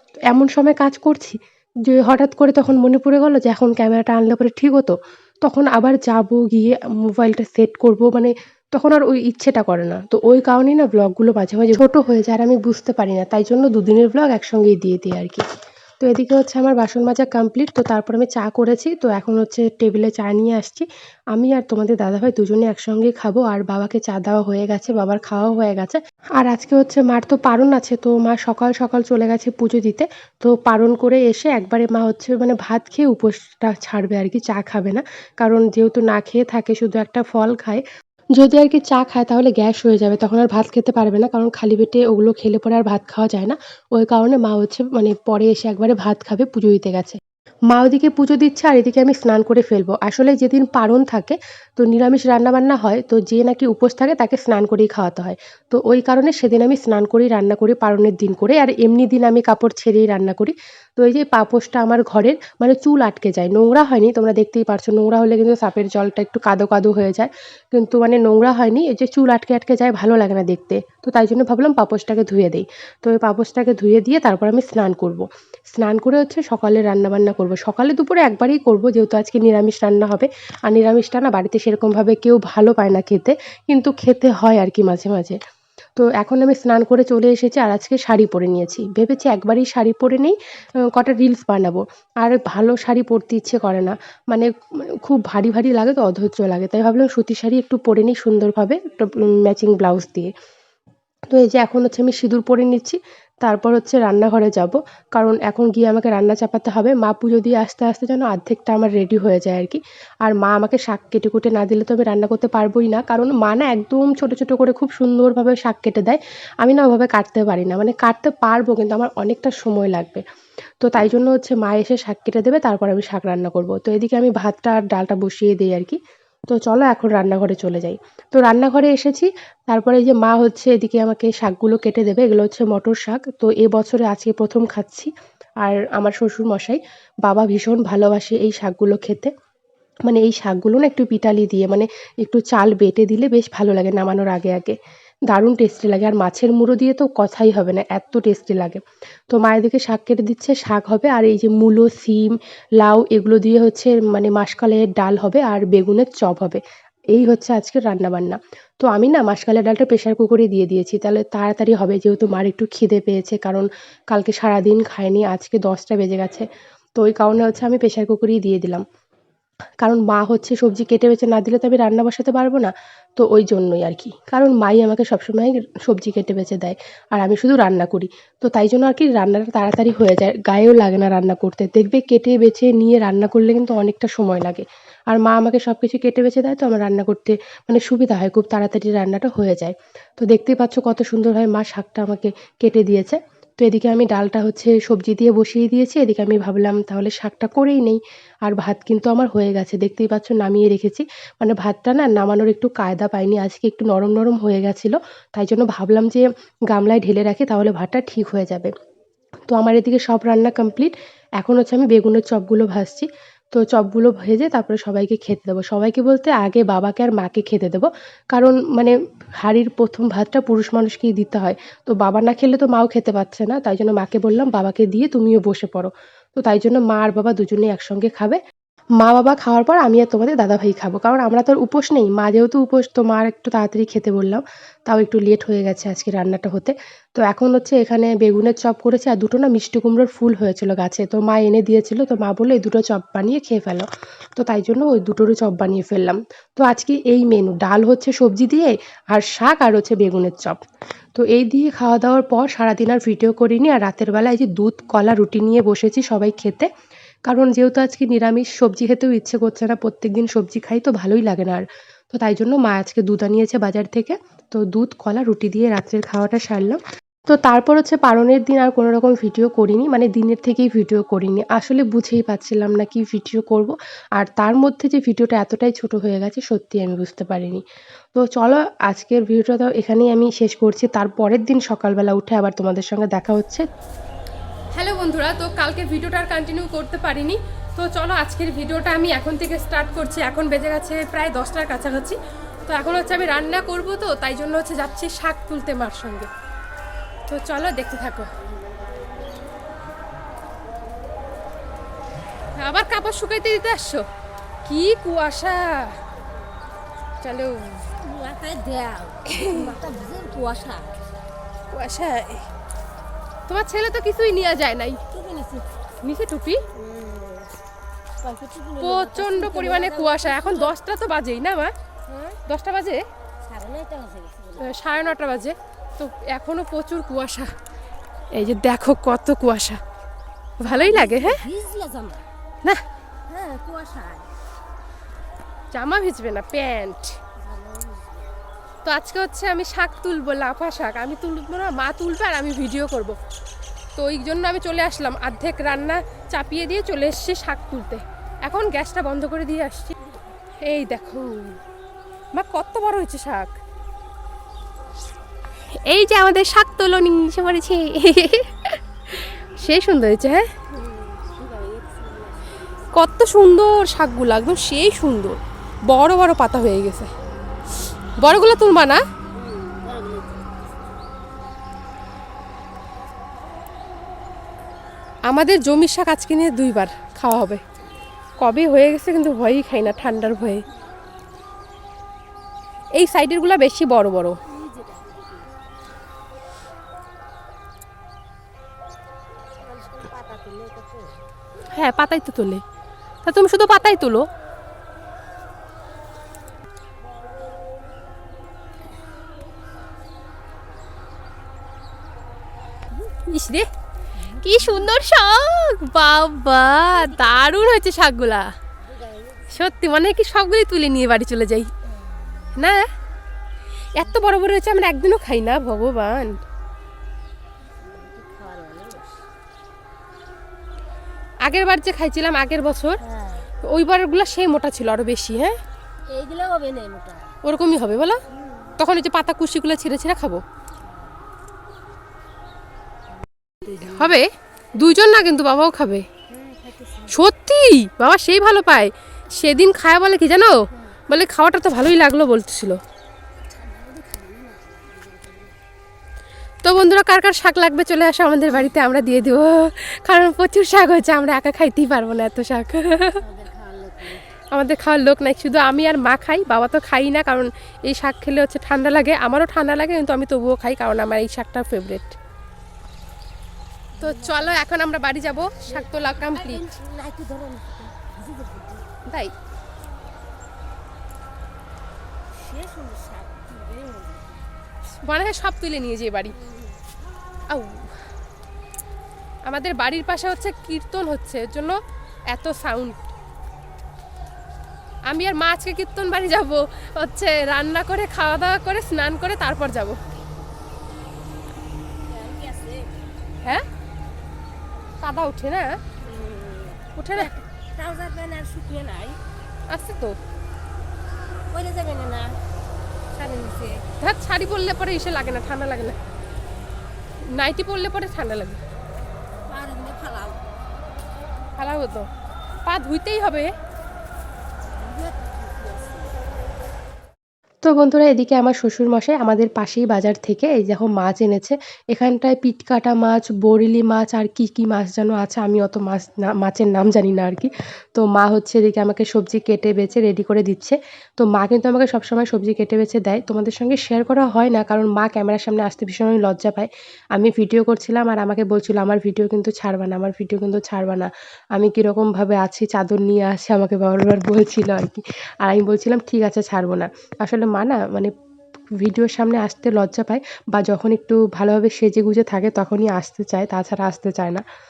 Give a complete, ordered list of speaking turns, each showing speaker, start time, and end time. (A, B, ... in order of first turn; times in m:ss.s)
0:00.3-0:15.4 A
0:16.0-0:37.8 A
0:38.4-0:47.2 A
0:47.7-1:25.4 A
1:26.0-1:30.4 A
1:30.9-1:40.3 A
1:41.3-2:00.2 A
2:00.8-2:06.0 A
2:06.5-2:19.3 A
2:20.0-2:24.8 A
2:25.3-2:36.6 A
2:37.1-2:46.4 A
2:47.0-2:48.8 A
2:49.8-3:28.7 A
3:29.5-3:48.4 A
3:49.0-4:10.6 A
4:11.1-4:16.7 A
4:17.3-4:37.6 A
4:38.1-4:43.6 A
4:44.7-4:56.3 B
4:57.3-4:58.3 B
5:02.6-5:04.0 B
5:04.6-5:06.0 B
5:07.2-5:07.9 B
5:08.0-5:11.0 C
5:09.4-5:09.7 B
5:11.7-5:12.4 B
5:13.5-5:15.0 B
5:15.1-5:15.7 C
5:16.0-5:16.6 B
5:16.7-5:17.5 C
5:18.2-5:20.7 C
5:18.8-5:21.7 B
5:22.1-5:22.4 C
5:22.5-5:23.0 B
5:23.4-5:24.7 C
5:24.6-5:27.5 B
5:28.3-5:29.8 B
5:30.6-5:31.4 B
5:30.6-5:32.3 C
5:33.3-5:34.3 C
5:35.7-5:37.1 B
5:37.4-5:38.3 C
5:38.8-5:43.2 B
5:44.0-5:49.9 B
5:50.6-5:51.6 B
5:52.3-5:53.5 B
5:55.9-5:58.5 B
5:59.6-6:00.4 B
6:00.7-6:02.7 C
6:02.9-6:05.4 B
6:05.9-6:07.1 B
6:08.2-6:09.0 B
6:09.3-6:10.8 C
6:15.3-6:17.6 B
6:18.4-6:20.6 B
6:23.0-6:24.4 B
6:24.4-6:25.5 C
6:29.6-6:31.2 C
6:31.7-6:32.6 B
6:33.2-6:34.2 B
6:43.3-6:43.7 B
6:44.2-6:44.9 C
6:44.4-6:48.5 B
6:46.9-6:47.7 C
6:48.8-6:49.8 C
6:49.5-6:51.7 B
6:51.9-6:52.7 C
6:52.6-6:52.9 B
6:54.0-6:56.3 B
6:57.8-6:59.2 C
7:01.4-7:03.0 B
7:03.0-7:03.5 C
7:03.6-7:05.5 B
7:06.1-7:07.4 C
7:07.4-7:08.2 B
7:08.3-7:08.7 C
7:08.8-7:10.4 B
7:10.8-7:11.2 C
7:13.6-7:14.2 C
7:13.8-7:14.2 B
7:14.8-7:16.0 B
7:16.3-7:17.2 C
7:17.1-7:20.6 B
7:21.1-7:22.8 B
7:23.5-7:25.6 C
7:26.6-7:29.5 B
7:30.1-7:32.8 A
7:31.1-7:31.6 B
7:33.2-7:34.3 C
7:34.6-7:37.4 B
7:35.2-7:42.1 A
7:38.7-7:41.4 B
7:44.0-7:44.6 C
7:44.0-7:46.7 B
7:45.6-7:48.9 C
7:52.3-7:54.5 C
7:55.0-7:56.3 B
7:56.3-7:56.8 C
7:57.5-7:57.9 B
7:59.4-8:01.8 B
8:02.3-8:03.0 B
8:05.1-8:10.0 B
8:12.0-8:12.9 C
8:15.0-8:15.8 B
8:16.0-8:19.2 C
8:17.0-8:17.3 B
8:19.7-8:20.2 B
8:21.5-8:22.4 C
8:23.3-8:23.8 C
8:24.0-8:26.0 B
8:27.3-8:28.6 B
8:29.4-8:30.5 C
8:31.6-8:32.0 B
8:32.6-8:33.5 B
8:34.7-8:36.2 C
8:37.6-9:08.1 A
9:08.8-9:14.4 A